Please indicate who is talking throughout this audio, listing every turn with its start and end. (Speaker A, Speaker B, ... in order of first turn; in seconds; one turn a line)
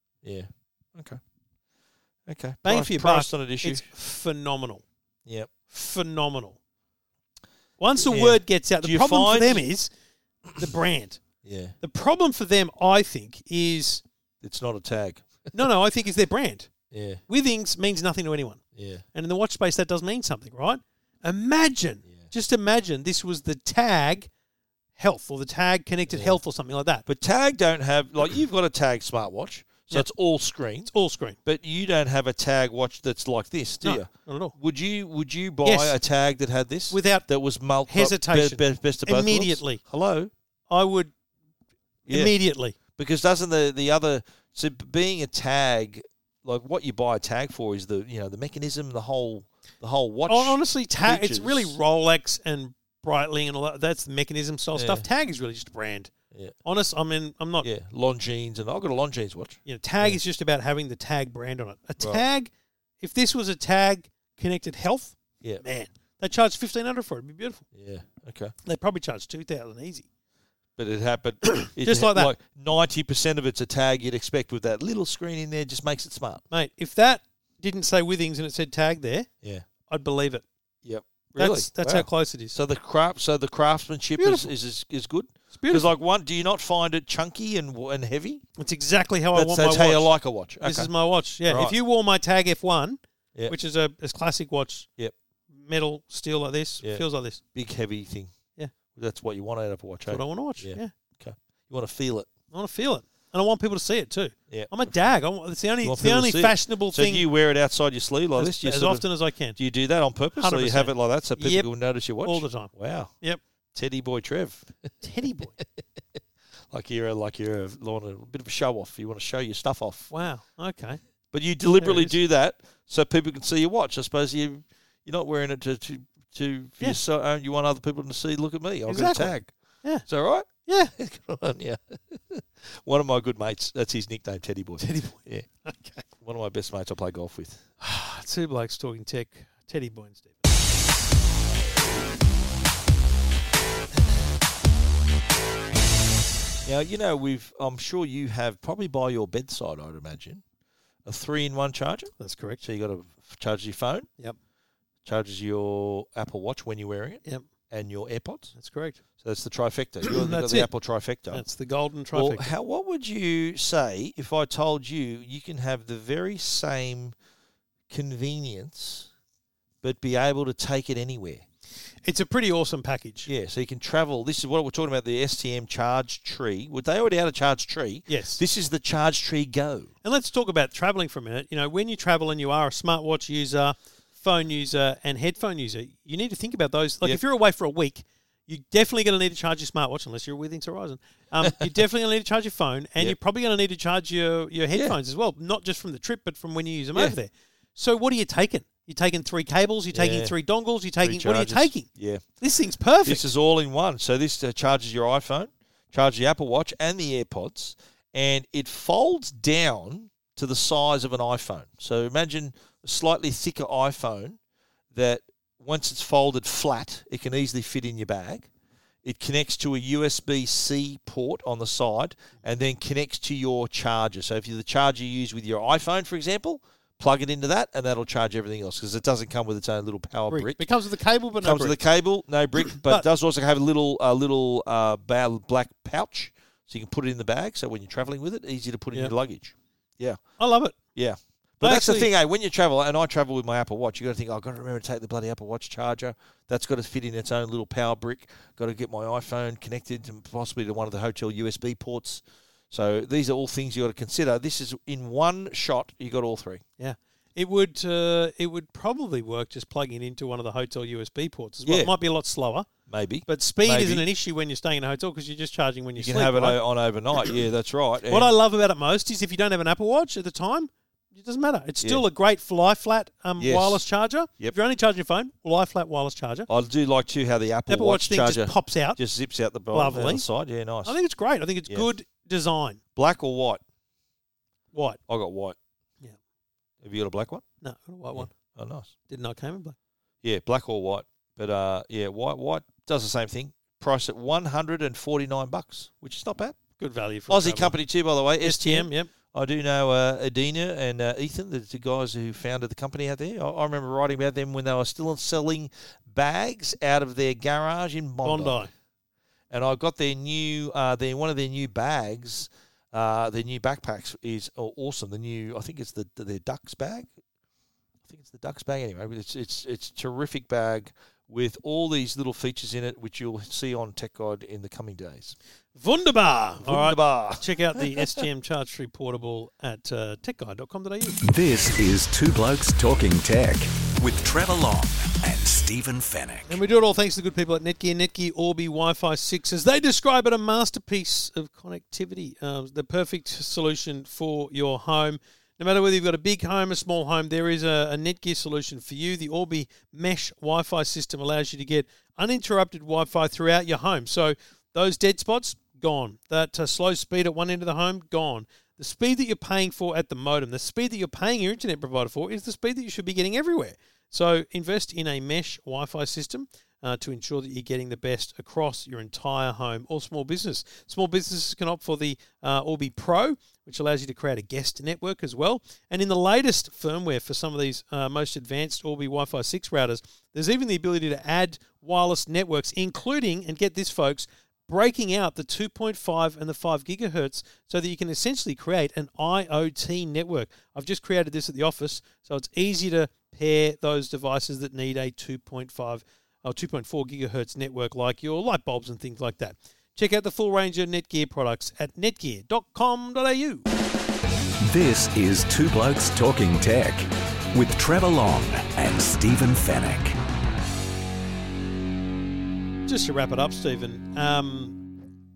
Speaker A: 0.2-1.2
Speaker A: 2.3-3.9
Speaker B: 2.6-4.8
Speaker B: 5.7-6.6
Speaker B: 7.8-9.9
Speaker A: 8.0-9.6
Speaker B: 10.6-11.2
Speaker A: 11.4-11.8
Speaker B: 11.8-14.0
Speaker A: 14.4-15.5
Speaker B: 15.5-16.7
Speaker A: 16.9-17.2
Speaker B: 17.3-18.6
Speaker A: 18.7-19.0
Speaker B: 19.1-24.3
Speaker B: 25.0-27.1
Speaker A: 26.1-26.4
Speaker A: 27.1-30.9
Speaker B: 30.9-31.4
Speaker A: 31.4-40.3
Speaker B: 33.8-34.6
Speaker B: 35.6-36.0
Speaker B: 36.9-37.2
Speaker B: 37.9-39.8
Speaker B: 40.7-41.1
Speaker A: 42.1-42.4
Speaker B: 42.1-42.8
Speaker A: 43.0-51.8
Speaker B: 50.3-56.1
Speaker A: 54.7-55.1
Speaker B: 56.6-57.7
Speaker A: 57.6-60.2
Speaker B: 59.6-67.6
Speaker A: 62.0-62.2
Speaker A: 67.7-68.5
Speaker B: 68.6-70.1
Speaker A: 70.8-76.4
Speaker B: 71.5-72.3
Speaker B: 76.5-79.3
Speaker B: 79.9-80.5
Speaker A: 80.8-88.4
Speaker B: 81.3-82.5
Speaker B: 84.2-84.5
Speaker B: 85.5-85.9
Speaker B: 88.6-94.9
Speaker A: 89.3-90.9
Speaker A: 91.5-91.8
Speaker B: 95.6-97.4
Speaker A: 96.8-98.3
Speaker A: 98.9-102.3
Speaker B: 100.1-100.9
Speaker B: 102.5-107.3
Speaker A: 104.5-104.9
Speaker A: 105.8-113.1
Speaker B: 108.4-109.6
Speaker B: 110.3-111.7
Speaker B: 112.2-113.4
Speaker A: 113.7-115.0
Speaker B: 115.0-115.5
Speaker A: 115.6-115.8
Speaker A: 116.7-120.1
Speaker B: 120.1-121.0
Speaker A: 121.3-129.5
Speaker B: 121.8-122.1
Speaker B: 128.9-130.1
Speaker A: 130.0-137.6
Speaker B: 130.7-130.9
Speaker B: 134.8-135.2
Speaker B: 137.8-140.4
Speaker A: 146.6-150.4
Speaker A: 151.1-154.1
Speaker B: 152.2-152.6
Speaker A: 155.1-158.5
Speaker B: 158.6-159.0
Speaker A: 159.2-161.4
Speaker B: 160.0-160.7
Speaker B: 161.3-162.5
Speaker A: 162.1-167.1
Speaker A: 167.9-169.1
Speaker A: 169.8-171.4
Speaker B: 172.1-173.3
Speaker A: 173.3-179.9
Speaker B: 178.1-178.4
Speaker B: 180.0-201.9
Speaker A: 194.7-195.0
Speaker A: 199.9-200.3
Speaker A: 201.0-202.2
Speaker B: 202.4-203.3
Speaker A: 203.0-214.4
Speaker A: 214.9-218.5
Speaker A: 219.0-230.7
Speaker B: 230.3-231.8
Speaker A: 231.4-256.6
Speaker B: 232.7-233.0
Speaker B: 240.4-240.8
Speaker B: 241.6-242.1
Speaker B: 256.8-262.7
Speaker A: 261.6-261.9
Speaker A: 262.9-264.1
Speaker B: 263.3-266.6
Speaker A: 266.0-268.3
Speaker B: 268.1-276.5
Speaker A: 273.4-273.9
Speaker A: 276.5-281.0
Speaker B: 277.7-279.0
Speaker B: 279.7-280.2
Speaker B: 280.9-282.8
Speaker A: 282.9-283.6
Speaker B: 284.7-285.0
Speaker A: 285.1-285.6
Speaker A: 286.8-287.4
Speaker B: 287.6-288.3
Speaker A: 288.1-288.9
Speaker B: 289.1-289.8
Speaker A: 290.2-296.6
Speaker B: 296.8-297.7
Speaker A: 297.3-308.6
Speaker B: 298.4-299.1
Speaker B: 308.2-308.7
Speaker A: 309.5-317.1
Speaker A: 318.1-325.4
Speaker B: 325.7-331.2
Speaker A: 326.6-328.2
Speaker C: 331.2-336.6
Speaker B: 336.5-403.7
Speaker C: 404.6-410.2
Speaker B: 412.9-414.9